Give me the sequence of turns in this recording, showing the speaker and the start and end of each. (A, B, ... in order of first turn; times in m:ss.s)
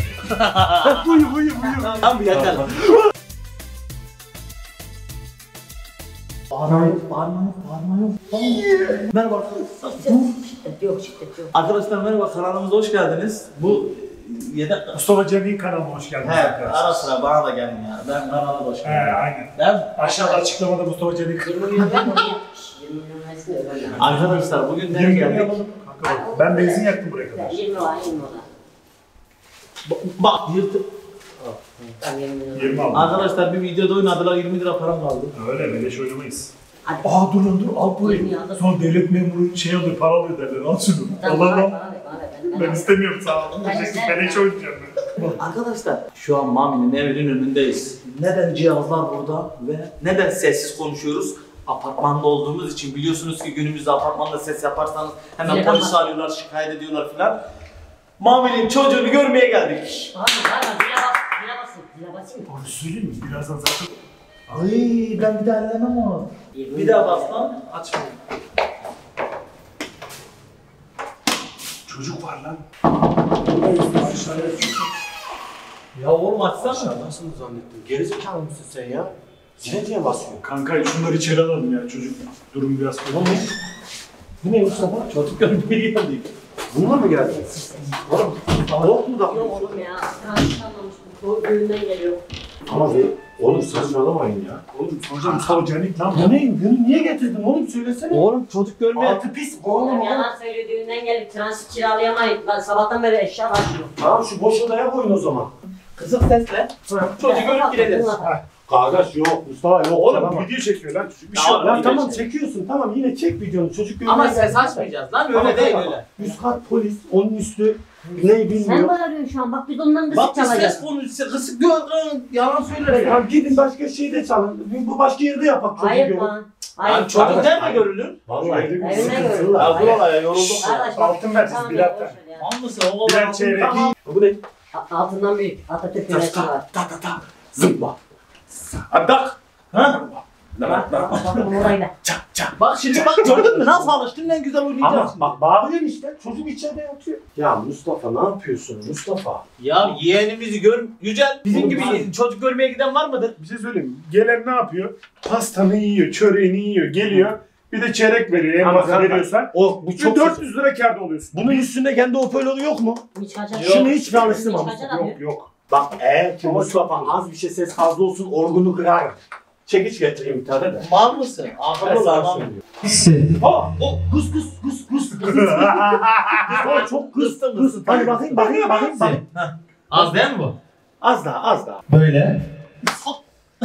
0:00.3-0:01.0 A
0:00.9-0:02.3 B
0:00.9-0:03.0 C
0:02.0-0:03.0 A
0:06.5-0:10.3 A
0:10.0-0:11.5 D
0:11.5-0:15.0 A
0:14.9-0:17.1 B
0:16.2-0:20.1 A
0:18.8-0:22.0 B
0:21.4-0:24.1 D
0:22.0-0:22.3 A
0:24.0-0:25.6 A
0:24.9-0:27.6 B
0:26.0-0:28.5 D
0:29.8-0:30.8 A
0:31.5-0:31.9 A
0:32.0-0:33.0 D
0:32.5-0:33.2 B
0:32.9-0:35.3 A
0:35.3-0:36.5 B
0:36.8-0:37.2 D
0:37.0-0:41.8 B
0:38.0-0:38.7 D
0:41.2-0:43.0 D
0:42.5-0:45.4 B
0:43.6-0:44.5 D
0:45.4-0:57.4 A
0:55.4-0:56.0 D
0:58.2-1:00.1 A
1:00.1-1:02.4 D
1:02.5-1:03.9 B
1:04.5-1:08.2 A
1:06.5-1:07.3 D
1:11.8-1:12.6 B
1:13.4-1:14.8 B
1:16.0-1:16.9 A
1:16.6-1:20.4 C
1:20.4-1:23.5 B
1:23.1-1:23.5 C
1:24.4-1:25.2 C
1:24.9-1:26.3 A
1:26.7-1:27.5 C
1:27.1-1:32.2 D
1:28.1-1:29.9 C
1:32.7-1:34.6 C
1:34.7-1:36.4 B
1:35.3-1:35.6 C
1:36.1-1:38.3 C
1:38.1-1:39.2 A
1:38.9-1:40.3 C
1:39.7-1:43.9 D
1:44.0-1:45.5 C
1:46.0-1:48.2 A
1:46.8-1:47.2 C
1:47.2-1:48.4 D
1:48.7-1:50.5 C
1:50.0-1:51.9 B
1:51.3-1:52.2 A
1:51.5-1:58.9 C
1:54.1-1:56.1 A
1:58.5-2:00.8 D
2:00.1-2:03.2 A
2:02.9-2:06.3 C
2:05.8-2:07.5 D
2:06.8-2:08.2 A
2:07.1-2:10.0 C
2:08.4-2:09.5 B
2:08.8-2:12.4 D
2:09.6-2:10.9 A
2:10.9-2:12.2 B
2:12.4-2:13.7 A
2:13.0-2:14.0 B
2:13.6-2:14.4 C
2:14.7-2:16.7 D
2:16.1-2:18.0 C
2:18.7-2:19.4 C
2:19.7-2:20.0 A
2:19.9-2:23.9 C
2:20.6-2:21.9 D
2:22.6-2:25.4 A
2:24.8-2:29.4 C
2:29.6-2:33.4 A
2:31.5-2:32.1 B
2:33.4-2:41.7 B
2:38.6-2:40.4 C
2:41.3-2:43.0 C
2:43.2-2:45.2 D
2:43.5-2:44.9 C
2:43.6-2:43.9 A
2:44.9-2:45.5 B
2:45.7-2:50.9 C
2:46.4-2:47.2 B
2:50.8-2:54.0 A
2:51.8-2:52.6 C
2:53.4-2:59.2 C
2:55.6-2:56.5 B
2:55.7-3:00.6 A
3:01.0-3:01.8 C
3:01.9-3:03.2 A